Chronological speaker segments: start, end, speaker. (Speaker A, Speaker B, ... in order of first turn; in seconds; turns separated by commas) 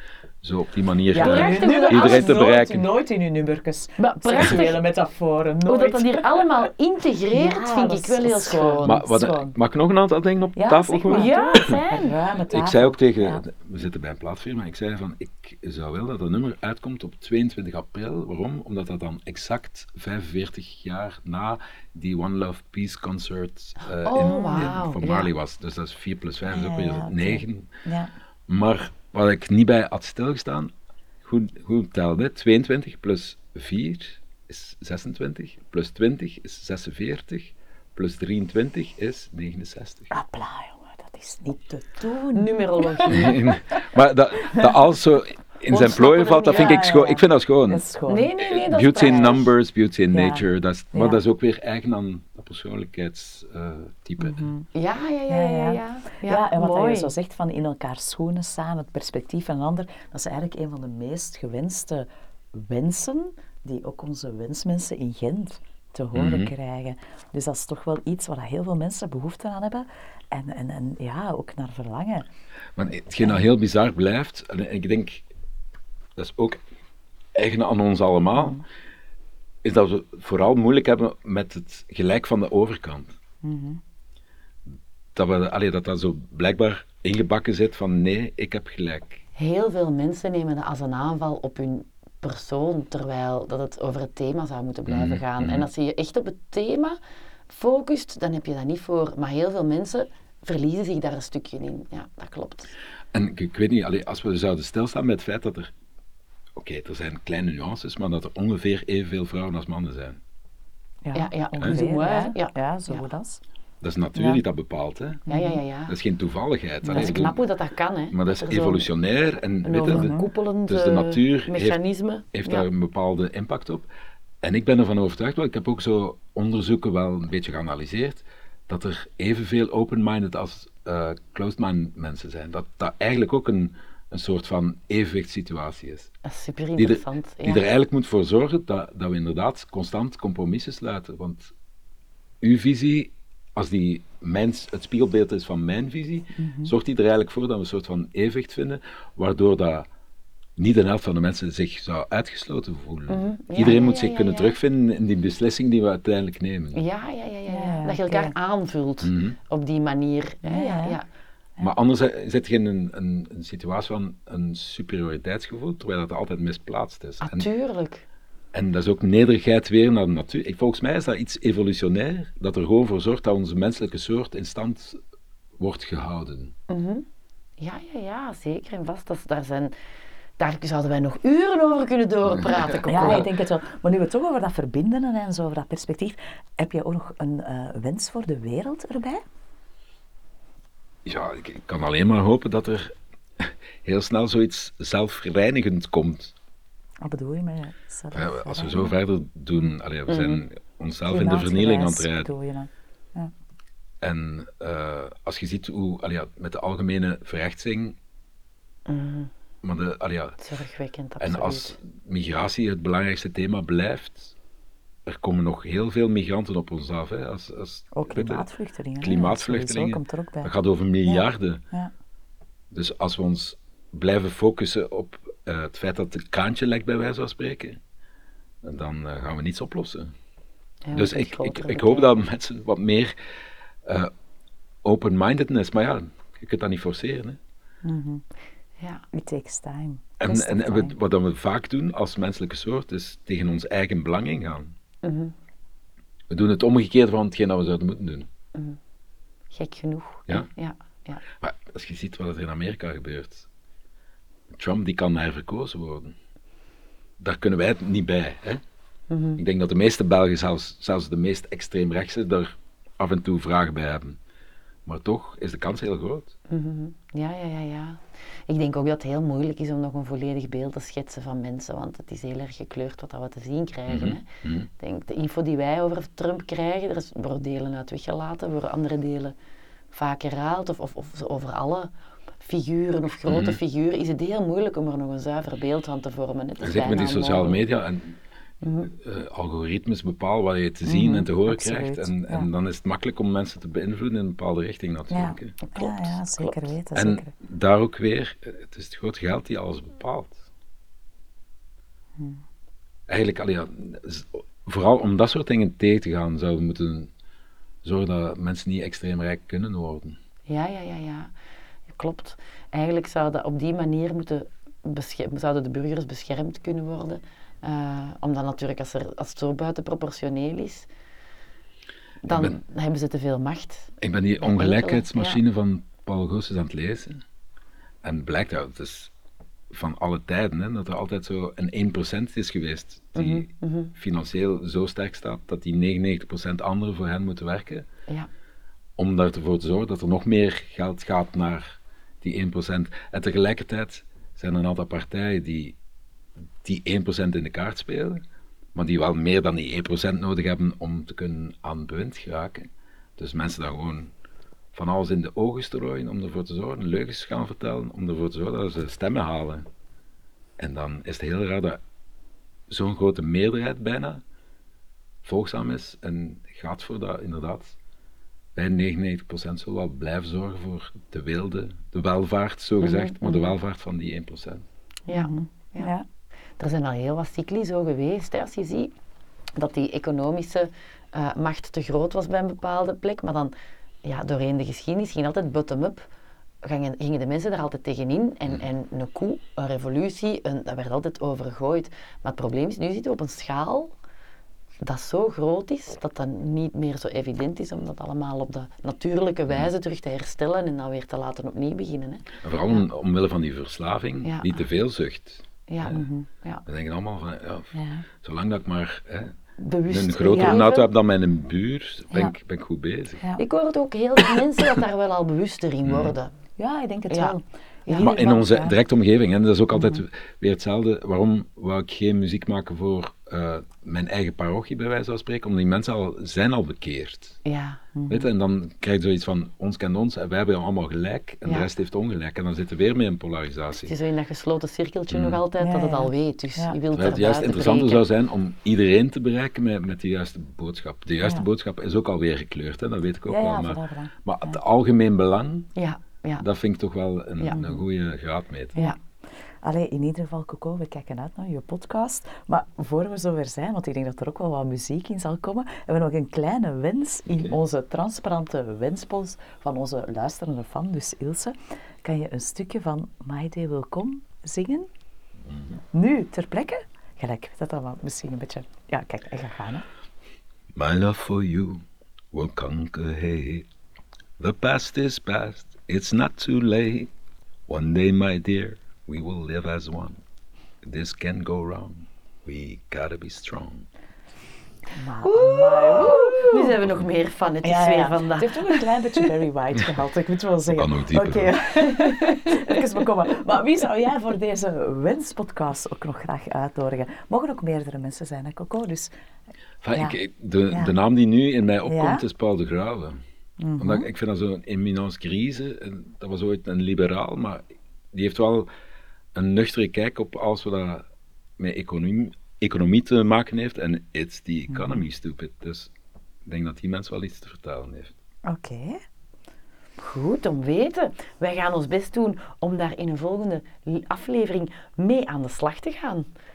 Speaker A: 0.4-2.9, Speaker B: 1.1-6.5, Speaker C: 1.1-2.4, Speaker C: 4.0-4.8, Speaker C: 5.7-9.0, Speaker B: 7.3-9.5, Speaker A: 8.8-11.7, Speaker B: 10.5-13.4, Speaker C: 11.0-12.2, Speaker A: 12.5-27.7, Speaker C: 24.0-25.3, Speaker B: 24.2-24.8, Speaker B: 26.5-28.1, Speaker A: 28.5-30.7, Speaker A: 31.2-40.1, Speaker B: 40.1-43.6, Speaker C: 42.3-43.4, Speaker A: 43.1-47.8, Speaker B: 44.5-44.7, Speaker C: 45.7-46.8, Speaker B: 46.4-48.3, Speaker C: 48.1-49.5, Speaker A: 48.4-54.5, Speaker B: 49.0-49.5, Speaker B: 50.1-51.2, Speaker B: 54.2-54.6, Speaker C: 54.7-57.1, Speaker B: 55.3-72.2, Speaker A: 66.1-66.5, Speaker A: 72.8-75.2, Speaker A: 76.2-76.6, Speaker A: 77.3-78.6, Speaker B: 78.3-78.6, Speaker A: 79.6-83.2, Speaker B: 83.4-83.8, Speaker A: 85.1-89.2, Speaker C: 89.3-97.0, Speaker A: 94.9-95.7, Speaker C: 97.5-102.7, Speaker A: 103.1-105.7, Speaker A: 106.5-110.2, Speaker B: 111.0-113.4, Speaker C: 111.1-113.1, Speaker A: 113.8-115.2, Speaker B: 114.1-114.4, Speaker B: 115.3-115.6, Speaker C: 115.3-115.9, Speaker A: 115.9-117.4, Speaker B: 116.8-117.3, Speaker C: 116.9-118.9, Speaker A: 118.1-120.1, Speaker C: 119.6-122.7, Speaker B: 119.9-120.2, Speaker A: 120.7-121.8, Speaker A: 122.3-123.8, Speaker A: 124.4-136.1, Speaker C: 136.2-137.7, Speaker A: 136.8-141.5, Speaker A: 142.4-149.9, Speaker B: 146.3-146.7, Speaker A: 150.6-156.8, Speaker C: 153.1-154.6, Speaker C: 156.7-161.0, Speaker B: 157.5-158.3, Speaker A: 159.0-159.4, Speaker B: 160.4-161.0, Speaker A: 161.6-167.5, Speaker C: 167.2-168.0, Speaker A: 168.5-175.0, Speaker A: 175.6-176.5, Speaker C: 176.7-177.1, Speaker C: 177.6-179.7, Speaker C: 180.4-183.3, Speaker A: 182.3-183.2, Speaker B: 182.9-189.2, Speaker A: 191.0-196.3, Speaker B: 197.0-199.0, Speaker A: 198.1-202.3, Speaker C: 200.1-200.4, Speaker B: 201.1-203.3, Speaker A: 204.0-207.9, Speaker C: 208.9-209.3, Speaker A: 209.6-210.6, Speaker C: 210.4-211.8, Speaker A: 211.2-214.3, Speaker A: 215.1-218.5, Speaker B: 217.9-220.5, Speaker A: 219.0-221.6, Speaker B: 221.0-221.9, Speaker A: 222.7-227.8, Speaker A: 228.6-230.1, Speaker C: 230.8-232.1, Speaker A: 230.9-233.1, Speaker A: 233.8-234.1, Speaker A: 234.8-237.4, Speaker B: 237.8-238.2, Speaker C: 238.8-239.0, Speaker B: 239.1-240.9, Speaker A: 240.2-244.7, Speaker C: 245.0-245.3, Speaker A: 246.3-248.3, Speaker C: 249.5-251.2, Speaker A: 251.3-253.5, Speaker A: 254.5-256.1, Speaker A: 257.2-258.6, Speaker C: 259.1-259.4, Speaker A: 259.4-264.2, Speaker A: 264.9-266.3, Speaker C: 266.5-274.2, Speaker A: 273.9-274.7, Speaker C: 274.8-279.3, Speaker C: 279.9-287.6, Speaker A: 283.2-283.6, Speaker A: 286.6-288.2, Speaker C: 288.6-288.9, Speaker A: 288.9-295.6, Speaker B: 290.9-292.5, Speaker B: 295.1-297.3, Speaker C: 295.6-296.6, Speaker A: 296.9-300.4, Speaker A: 303.1-307.1, Speaker A: 307.8-310.1, Speaker C: 310.5-311.3, Speaker C: 311.9-320.9, Speaker C: 322.2-325.4, Speaker A: 322.3-322.6, Speaker A: 324.0-327.2, Speaker A: 328.0-329.1, Speaker A: 329.7-337.9, Speaker C: 333.1-333.9, Speaker A: 339.0-345.8, Speaker A: 346.6-348.2, Speaker A: 348.7-354.1, Speaker A: 354.7-359.6, Speaker A: 360.6-361.8, Speaker A: 362.7-364.2, Speaker A: 365.2-367.8, Speaker A: 368.6-374.6, Speaker C: 372.8-373.5, Speaker C: 375.1-375.9, Speaker B: 375.1-376.1, Speaker C: 376.6-378.9, Speaker C: 379.6-383.5, Speaker C: 384.0-386.1, Speaker C: 386.6-393.9, Speaker C: 394.8-402.3, Speaker A: 402.4-406.1, Speaker C: 404.2-404.5, Speaker C: 405.7-406.6, Speaker B: 405.9-406.3, Speaker A: 406.6-409.3, Speaker B: 407.7-408.0, Speaker C: 409.6-410.9, Speaker A: 409.9-413.2, Speaker B: 410.3-410.6, Speaker C: 413.4-416.3, Speaker A: 415.8-416.1, Speaker B: 416.6-418.8, Speaker C: 417.1-418.1, Speaker A: 418.0-427.4, Speaker B: 419.7-420.0, Speaker C: 427.4-427.8, Speaker B: 427.9-428.3, Speaker A: 428.1-433.9, Speaker C: 433.9-438.0, Speaker A: 435.1-435.4, Speaker B: 435.6-436.8, Speaker A: 436.9-445.7, Speaker B: 441.2-441.5, Speaker B: 443.3-444.6, Speaker C: 445.7-446.4, Speaker A: 446.4-448.8, Speaker C: 447.4-447.7, Speaker B: 449.6-464.9, Speaker A: 465.5-465.8, Speaker B: 465.9-469.9, Speaker A: 470.7-473.6, Speaker A: 474.4-477.1, Speaker A: 477.7-480.2, Speaker A: 480.8-483.8, Speaker B: 484.9-486.7, Speaker C: 485.2-489.3, Speaker B: 487.6-499.1, Speaker A: 490.7-491.5, Speaker C: 492.0-492.8, Speaker A: 499.8-503.2, Speaker B: 501.8-502.2, Speaker B: 503.6-504.1, Speaker A: 503.8-507.6, Speaker A: 508.1-508.7, Speaker A: 509.3-511.0, Speaker A: 511.6-515.9, Speaker B: 514.7-515.0, Speaker A: 516.4-518.1, Speaker B: 518.5-519.0, Speaker C: 520.0-526.3